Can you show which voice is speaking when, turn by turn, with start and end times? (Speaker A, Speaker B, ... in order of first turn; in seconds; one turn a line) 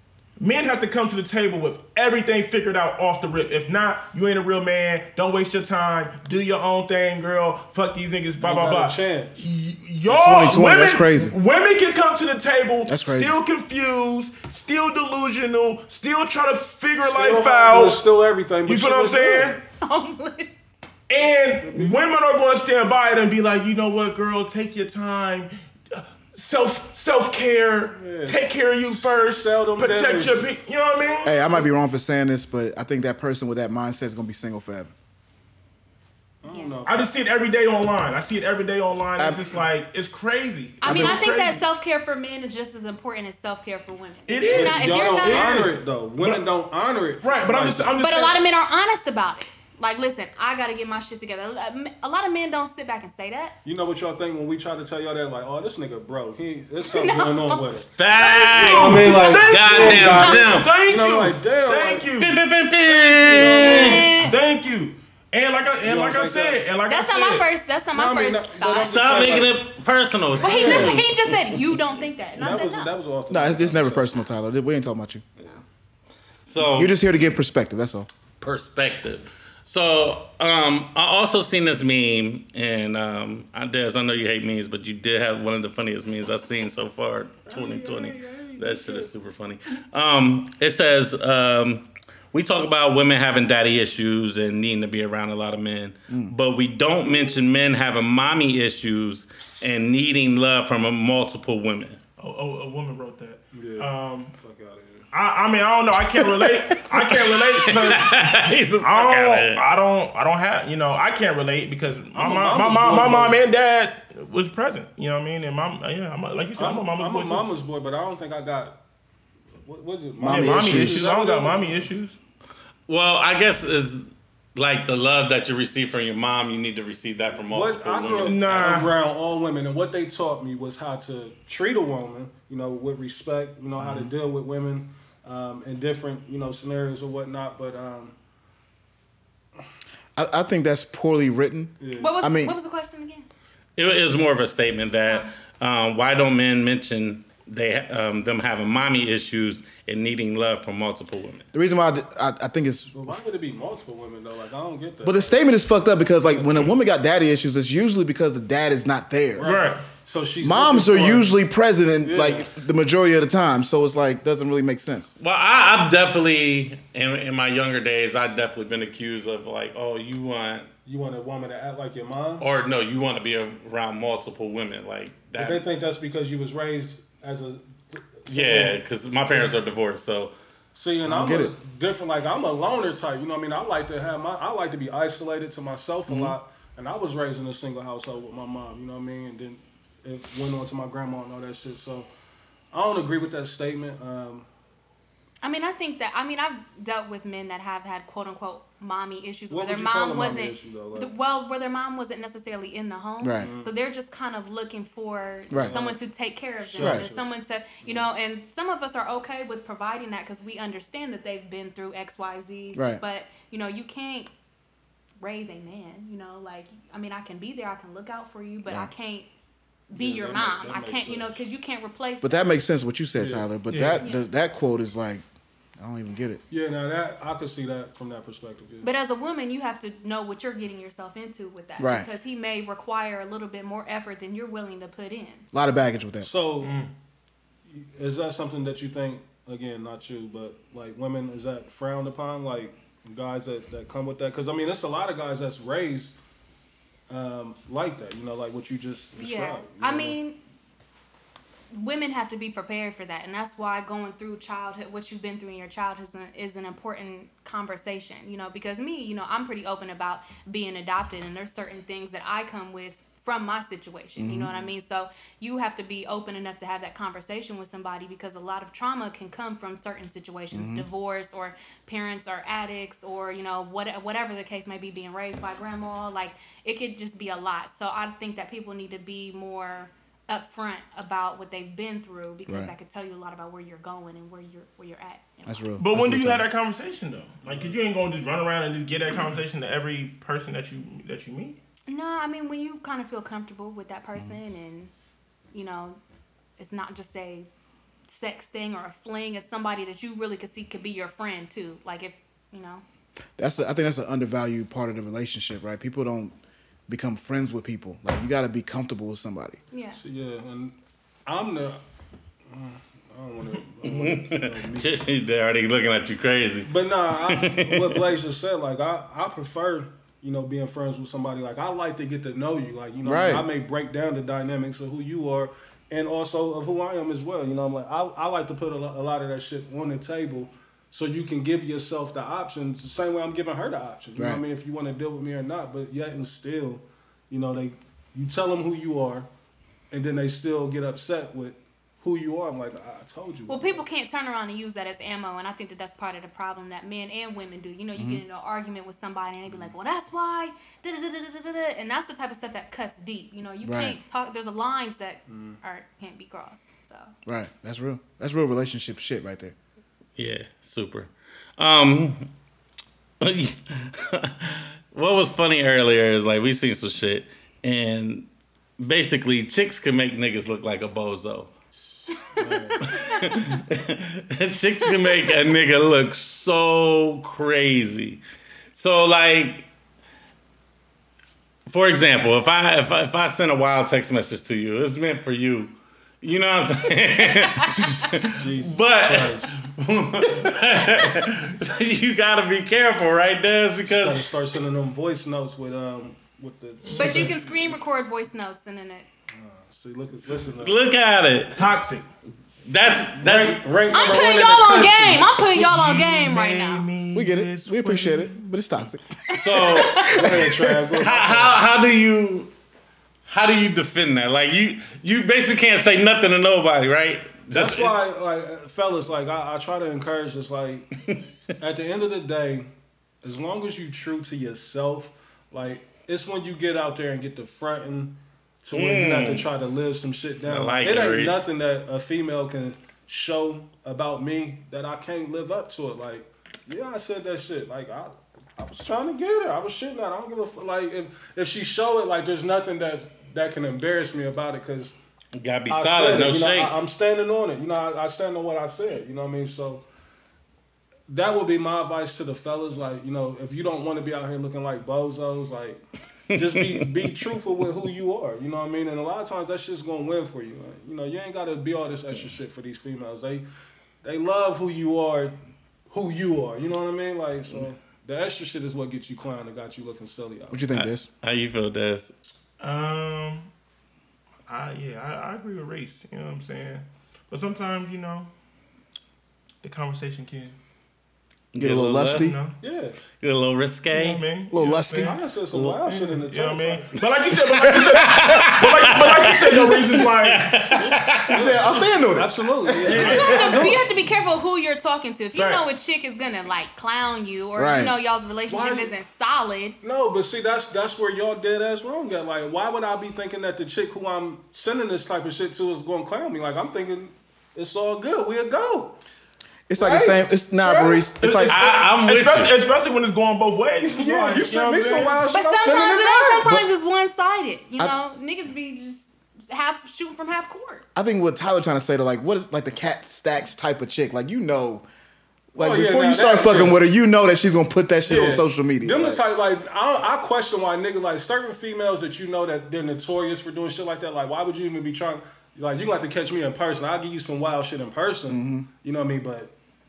Speaker A: 0.4-18.0
Speaker B: 8.4-9.4
Speaker C: 10.1-11.3
Speaker C: 12.9-13.3
Speaker B: 17.0-19.6
Speaker A: 18.6-19.6
Speaker D: 19.8-20.5
Speaker A: 21.1-31.6
Speaker B: 21.6-22.0
Speaker B: 27.9-30.5
Speaker C: 31.2-34.9
Speaker B: 36.4-37.1
Speaker D: 36.5-36.8
Speaker A: 36.8-41.6
Speaker C: 39.2-39.5
Speaker D: 40.8-45.6
Speaker C: 40.8-41.2
Speaker A: 44.3-46.4
Speaker B: 44.4-48.0
Speaker A: 47.2-48.4
Speaker D: 48.0-53.5
Speaker B: 53.6-57.9
Speaker D: 56.9-57.7
Speaker E: 58.0-60.7
Speaker A: 58.2-62.4
Speaker B: 58.5-62.1
Speaker E: 62.2-64.1
Speaker B: 62.8-64.1
Speaker A: 63.3-67.5
Speaker D: 63.4-64.3
Speaker B: 65.8-66.6
Speaker D: 66.9-69.1
Speaker B: 67.9-69.6
Speaker E: 68.8-71.6
Speaker B: 70.4-71.0
Speaker D: 70.4-72.9
Speaker B: 72.3-74.2
Speaker C: 73.3-75.2
Speaker E: 76.5-76.9
Speaker C: 76.6-78.1
Speaker E: 78.4-102.0
Speaker B: 87.5-89.1
Speaker B: 97.0-97.4
Speaker A: 102.2-104.3
Speaker B: 103.5-105.1
Speaker A: 105.1-117.5
Speaker E: 107.5-109.6
Speaker B: 112.1-113.4
Speaker B: 116.6-118.8
Speaker B: 119.6-121.9
Speaker C: 120.2-121.1
Speaker A: 120.2-122.2
Speaker E: 122.9-128.7
Speaker B: 127.5-138.1
Speaker A: 128.2-128.9
Speaker C: 133.8-134.1
Speaker C: 140.2-142.6
Speaker B: 141.8-142.1
Speaker D: 142.0-143.3
Speaker E: 143.8-151.5
Speaker C: 151.5-153.3
Speaker B: 152.9-155.4
Speaker C: 155.0-159.5
Speaker B: 156.2-156.5
Speaker B: 159.4-161.3
Speaker A: 159.4-159.9
Speaker C: 160.4-165.1
Speaker B: 162.0-162.5
Speaker E: 165.2-170.7
Speaker B: 170.8-172.4
Speaker E: 172.4-175.6
Speaker B: 175.4-179.5
Speaker E: 178.3-180.3
Speaker B: 180.7-192.1
Speaker C: 181.0-181.5
Speaker C: 186.1-186.3
Speaker B: 192.7-194.5
Speaker D: 195.4-214.3
Speaker B: 199.5-201.1
Speaker C: 203.2-203.5
Speaker B: 203.4-203.7
Speaker C: 205.5-205.8
Speaker B: 205.6-206.0
Speaker B: 206.6-207.2
Speaker C: 206.8-207.1
Speaker B: 207.8-208.1
Speaker C: 212.7-213.0
Speaker D: 215.2-219.3
Speaker D: 219.9-222.6
Speaker B: 219.9-221.4
Speaker C: 222.2-225.2
Speaker B: 223.2-223.9
Speaker A: 223.7-224.0
Speaker D: 224.0-224.3
Speaker C: 225.8-226.4
Speaker B: 226.5-228.9
Speaker D: 228.8-235.5
Speaker C: 231.8-232.1
Speaker C: 235.5-236.3
Speaker B: 236.2-236.8
Speaker A: 236.6-236.9
Speaker B: 237.7-246.2
Speaker B: 247.1-250.2
Speaker D: 249.2-250.4
Speaker D: 251.7-285.7
Speaker C: 264.2-264.7
Speaker C: 270.5-270.9
Speaker C: 282.5-282.7
Speaker C: 285.4-286.4
Speaker A: 285.8-291.6
Speaker D: 291.9-294.9
Speaker D: 295.5-296.0
Speaker D: 296.6-297.5
Speaker D: 298.1-302.8
Speaker C: 303.4-306.4
Speaker C: 306.9-309.6
Speaker D: 309.7-310.0
Speaker B: 309.9-311.8
Speaker B: 312.5-315.1
Speaker E: 313.8-318.2
Speaker B: 316.6-339.3
Speaker C: 323.0-323.5
Speaker C: 334.1-334.4
Speaker B: 339.9-343.8
Speaker D: 343.5-357.1
Speaker C: 347.9-348.2
Speaker C: 353.6-354.0
Speaker B: 355.3-355.6
Speaker C: 357.2-359.5
Speaker E: 360.2-362.3
Speaker E: 363.2-368.3
Speaker E: 368.8-371.5
Speaker D: 372.3-373.3
Speaker B: 372.3-372.9
Speaker E: 372.9-378.2
Speaker E: 378.7-379.6
Speaker E: 381.7-394.3
Speaker D: 387.6-387.8
Speaker B: 388.3-389.6
Speaker B: 393.9-397.4
Speaker A: 396.8-397.3
Speaker D: 396.9-399.1
Speaker B: 399.3-400.8
Speaker E: 400.6-401.6
Speaker A: 401.5-402.1
Speaker E: 402.6-403.6
Speaker B: 403.2-405.3
Speaker D: 403.9-406.9
Speaker A: 405.5-408.4
Speaker C: 407.1-409.4
Speaker E: 409.3-410.3
Speaker D: 409.3-410.2
Speaker B: 410.1-411.6
Speaker E: 411.0-412.5
Speaker E: 413.3-418.0
Speaker B: 417.5-420.9
Speaker B: 421.6-422.7
Speaker B: 423.2-444.9
Speaker E: 428.7-429.5
Speaker E: 430.4-431.4
Speaker E: 445.4-446.8
Speaker B: 445.7-449.8
Speaker B: 451.1-455.8
Speaker E: 456.3-457.1
Speaker B: 456.3-463.4
Speaker B: 464.0-465.4
Speaker B: 465.9-470.7
Speaker C: 470.5-471.1
Speaker E: 470.7-472.1
Speaker A: 472.6-473.5
Speaker A: 474.5-478.3
Speaker A: 479.6-480.6
Speaker E: 481.5-482.3
Speaker C: 481.6-482.4
Speaker A: 482.1-482.6
Speaker B: 482.6-483.0
Speaker E: 483.2-484.2
Speaker A: 483.9-490.9
Speaker C: 484.5-485.1
Speaker B: 484.9-487.0
Speaker C: 487.5-488.5
Speaker E: 487.7-491.6
Speaker B: 491.3-493.8
Speaker C: 491.3-493.7
Speaker A: 492.8-493.7
Speaker D: 492.9-499.8
Speaker A: 495.3-495.8
Speaker C: 497.6-497.9
Speaker B: 498.5-498.9
Speaker B: 499.8-509.0
Speaker C: 509.7-511.6
Speaker B: 509.8-511.1
Speaker A: 511.2-515.2
Speaker E: 511.5-512.5
Speaker B: 513.9-516.5
Speaker D: 515.3-520.9
Speaker C: 520.9-524.8
Speaker C: 525.5-529.2
Speaker B: 525.6-526.8
Speaker B: 528.0-539.5
Speaker C: 538.3-538.7